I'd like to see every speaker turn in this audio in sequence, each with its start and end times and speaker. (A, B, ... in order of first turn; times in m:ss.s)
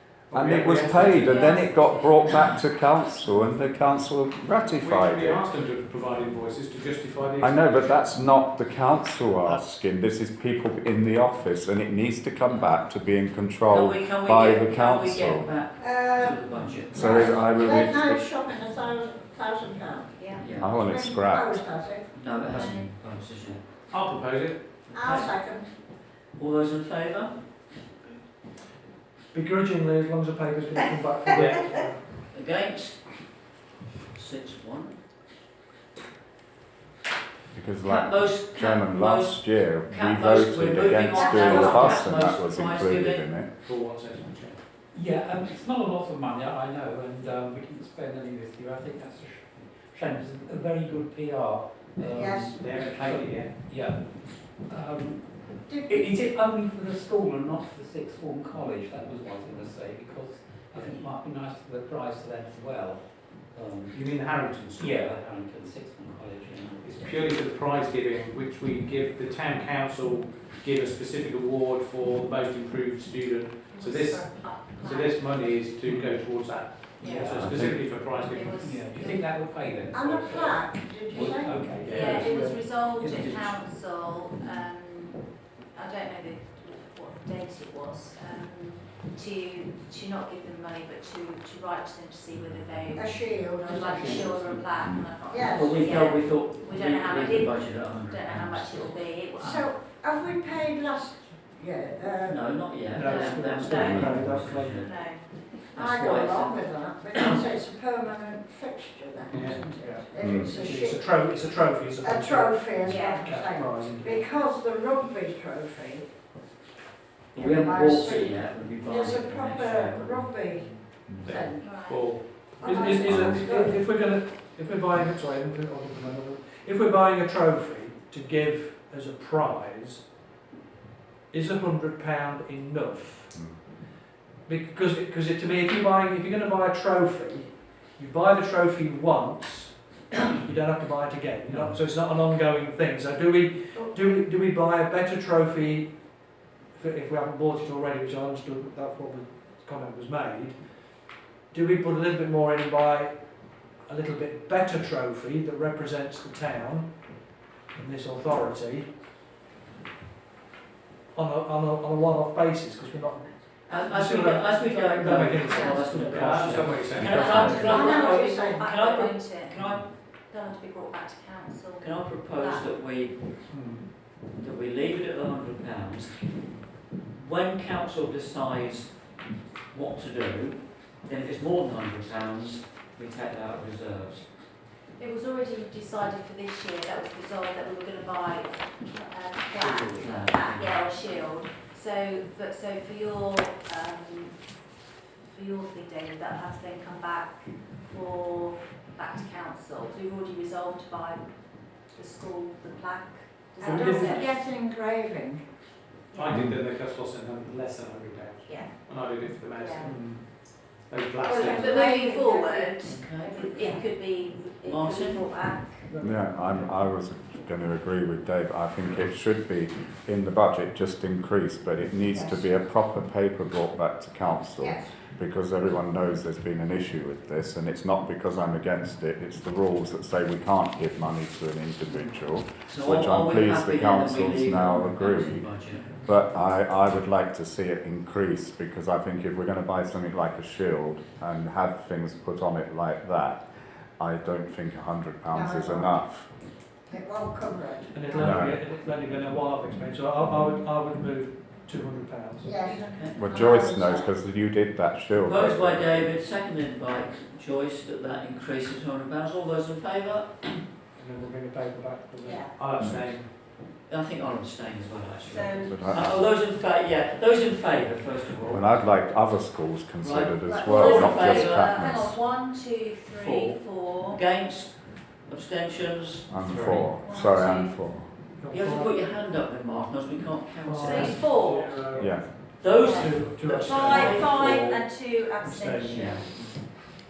0:00.3-0:01.5 A
0:00.3-0:05.4 B
0:01.0-0:02.6 C
0:04.7-0:08.0 A
0:07.4-0:15.5 B
0:12.5-0:12.8 D
0:13.7-0:17.7 D
0:15.8-0:22.1 E
0:16.9-0:18.2 B
0:20.4-0:20.8 D
0:20.6-0:21.6 B
0:22.1-0:23.6 D
0:22.5-0:22.9 C
0:23.9-0:24.8 A
0:24.9-0:25.3 D
0:24.9-0:25.7 E
0:26.4-0:27.3 D
0:29.3-0:32.0 F
0:31.2-0:31.8 A
0:31.3-0:31.6 E
0:32.3-0:33.2 D
0:34.2-0:35.0 D
0:37.5-0:43.5 B
0:37.8-0:43.3 D
0:41.1-0:42.0 E
0:43.6-0:44.6 A
0:44.9-1:04.2 G
0:52.0-0:52.8 E
0:52.5-0:53.6 A
0:55.6-0:56.1 E
1:03.9-1:05.1 A
1:04.8-1:07.2 G
1:06.8-1:19.0 A
1:13.7-1:15.3 C
1:17.0-1:17.6 G
1:17.0-1:17.3 C
1:17.3-1:17.6 B
1:18.0-1:19.3 C
1:18.4-1:23.6 G
1:19.9-1:21.8 E
1:21.8-1:22.3 A
1:21.8-1:39.7 C
1:32.9-1:34.5 E
1:33.7-1:34.8 G
1:34.8-1:35.1 B
1:35.3-1:36.1 E
1:35.4-1:39.1 D
1:39.4-1:42.8 E
1:42.2-1:45.0 D
1:42.9-1:44.8 F
1:43.0-1:44.0 C
1:43.8-1:44.2 B
1:44.7-1:45.6 C
1:45.6-1:47.4 D
1:45.7-1:51.1 E
1:49.3-1:49.8 A
1:49.8-1:54.2 F
1:50.2-1:50.5 B
1:52.0-1:56.1 E
1:52.8-1:53.3 C
1:57.3-2:00.4 D
1:57.4-2:03.8 E
2:01.1-2:02.8 A
2:01.6-2:03.0 C
2:02.7-2:10.0 F
2:03.0-2:03.4 B
2:11.3-2:13.3 F
2:13.3-2:13.6 B
2:14.5-2:19.8 F
2:20.4-2:26.0 F
2:26.8-2:30.6 F
2:31.5-2:33.2 F
2:33.8-2:37.0 F
2:37.7-2:38.9 F
2:41.1-2:47.0 F
2:43.7-2:49.9 D
2:45.4-2:45.9 C
2:46.2-2:47.8 A
2:47.0-2:52.7 C
2:47.3-2:48.6 E
2:51.8-2:53.4 D
2:53.5-2:53.8 F
2:54.3-2:56.4 D
2:57.1-2:59.1 D
2:59.7-3:04.4 D
3:05.0-3:14.7 C
3:09.5-3:11.2 D
3:15.2-3:24.3 C
3:23.6-3:25.5 E
3:23.7-3:24.1 F
3:26.1-3:31.8 A
3:26.3-3:26.6 B
3:29.5-3:29.9 C
3:31.2-3:32.8 E
3:31.2-3:35.9 C
3:32.8-3:33.5 D
3:33.5-3:33.8 E
3:34.6-3:35.3 D
3:35.9-3:36.7 F
3:36.0-3:55.5 B
3:42.1-3:42.5 E
3:44.6-3:45.0 E
3:52.7-3:55.9 D
3:56.0-4:03.5 B
4:04.0-4:06.3 B
4:05.3-4:06.0 E
4:06.9-4:08.5 E
4:07.9-4:12.5 F
4:08.2-4:08.6 B
4:12.4-4:14.2 E
4:12.6-4:13.2 D
4:13.2-4:16.1 B
4:15.2-4:20.5 D
4:21.0-4:22.4 F
4:22.2-4:22.5 E
4:22.4-4:23.3 A
4:22.8-4:23.1 B
4:23.9-4:28.7 D
4:25.4-4:25.7 C
4:25.4-4:25.7 E
4:25.6-4:26.2 B
4:28.5-4:32.2 B
4:30.0-4:31.9 D
4:30.4-4:34.2 C
4:33.1-4:36.9 D
4:36.3-4:38.1 B
4:36.5-4:36.9 A
4:36.9-4:38.0 C
4:38.4-4:38.9 F
4:38.5-4:41.3 D
4:40.6-4:44.8 F
4:40.8-4:41.8 C
4:40.9-4:42.2 A
4:42.0-4:42.3 B
4:42.6-4:44.6 D
4:42.8-4:46.4 C
4:45.4-4:46.5 F
4:45.8-4:46.4 D